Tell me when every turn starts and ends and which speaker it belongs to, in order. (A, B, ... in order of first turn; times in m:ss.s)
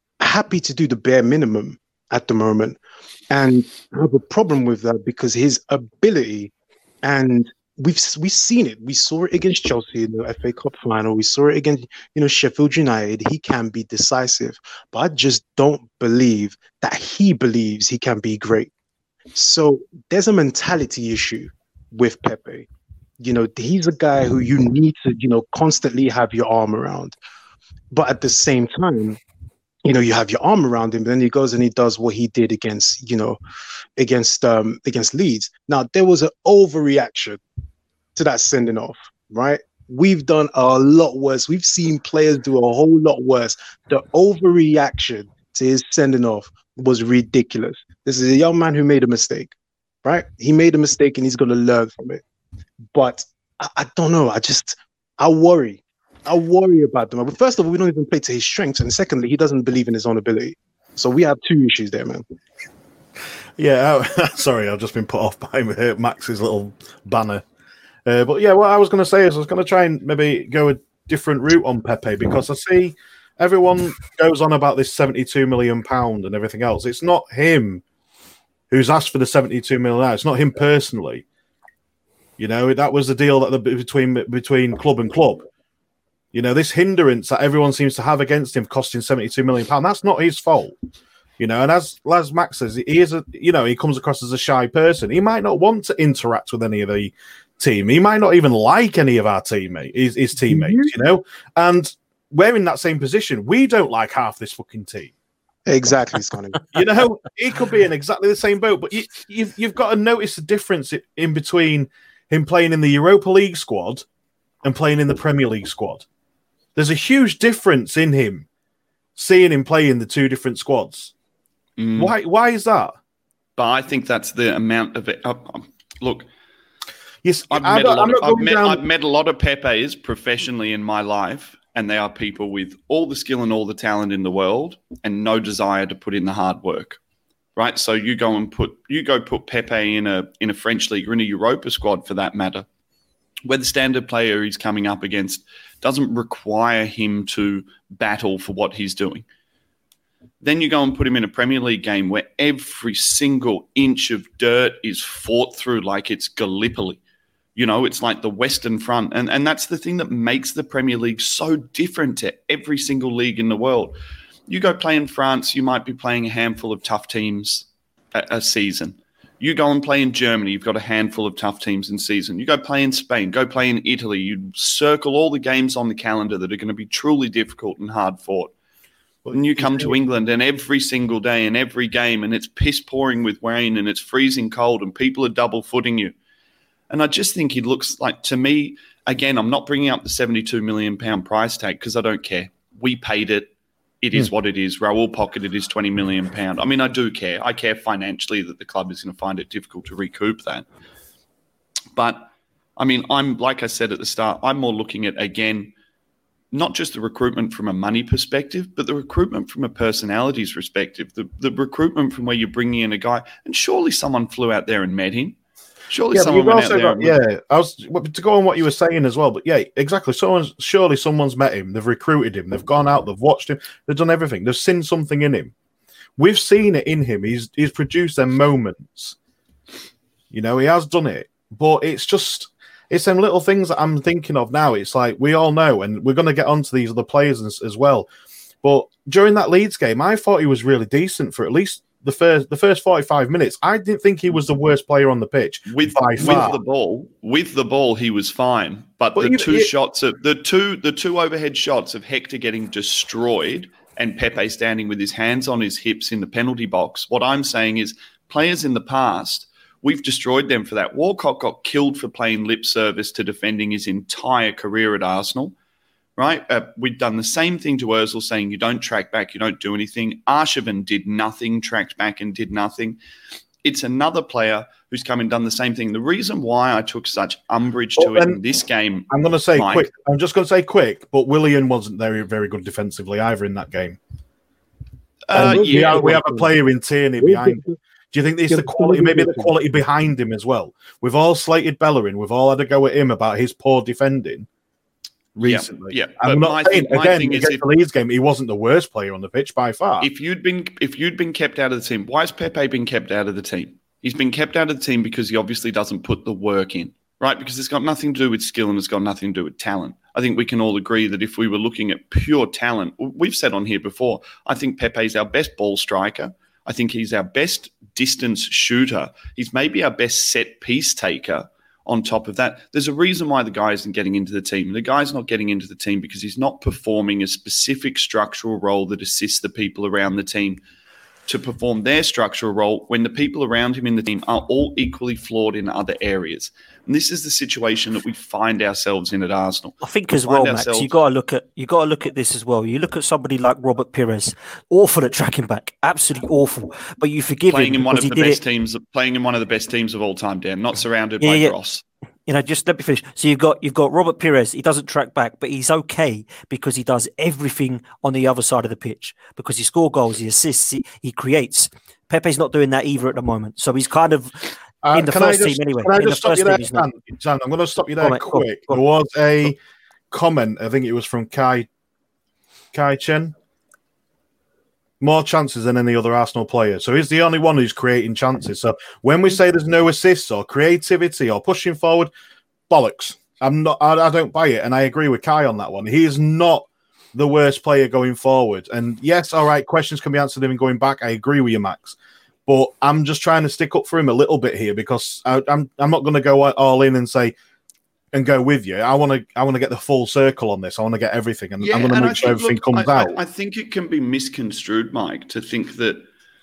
0:00.2-0:02.8 A
0:03.3-0:06.5 A
0:07.0-0:18.7 A
0:19.3-0:22.7 A
0:23.2-0:27.1 A
0:27.9-0:29.2 A
0:29.8-0:33.4 A
0:34.0-0:37.4 A
0:38.1-0:52.2 A
0:52.9-1:02.2 A
1:03.6-1:07.4 B
1:08.0-1:17.8 B
1:18.7-1:21.2 B
1:22.4-1:25.4 B
1:26.3-1:30.7 B
1:31.4-1:45.1 B
1:40.5-1:40.9 A
1:45.7-1:46.7 A
1:46.7-1:54.0 B
1:54.6-1:56.0 B
1:56.8-1:58.4 B
1:59.2-2:01.1 B
2:01.8-2:02.1 C
2:02.0-2:03.0 B
2:03.6-2:06.3 C
2:07.2-2:08.8 B
2:07.5-2:17.0 C
2:17.6-2:22.6 C
2:23.4-2:29.2 C
2:30.4-2:37.0 C
2:37.6-2:44.0 C
2:44.5-2:58.5 C
2:59.2-3:00.0 B
2:59.3-3:06.1 C
3:06.9-3:20.6 C
3:21.9-3:25.7 C
3:26.5-3:35.4 C
3:35.9-3:37.2 C
3:36.1-3:45.5 B
3:46.2-3:49.2 B
3:50.3-3:58.1 B
3:58.6-4:06.6 B
4:05.7-4:25.5 C
4:09.2-4:09.7 B
4:26.2-4:33.0 C
4:33.6-4:39.9 C
4:38.0-4:38.4 B
4:39.1-4:44.0 B
4:45.3-4:46.2 C
4:45.3-4:46.5 A
4:45.3-4:54.4 B
4:47.2-4:47.8 A
4:48.5-4:49.5 A
4:55.4-5:00.1 B
4:55.4-4:57.6 C
5:00.0-5:30.6 C
5:31.3-5:40.9 C
5:39.8-5:48.4 D
5:47.5-5:51.8 C
5:51.2-5:51.5 D
5:52.3-6:06.9 D
6:04.8-6:09.6 B
6:08.0-6:08.8 D
6:10.1-6:11.7 B
6:12.7-6:13.3 B
6:15.0-6:22.1 B
6:22.7-6:37.3 B
6:38.1-6:43.2 B
6:41.6-6:46.0 C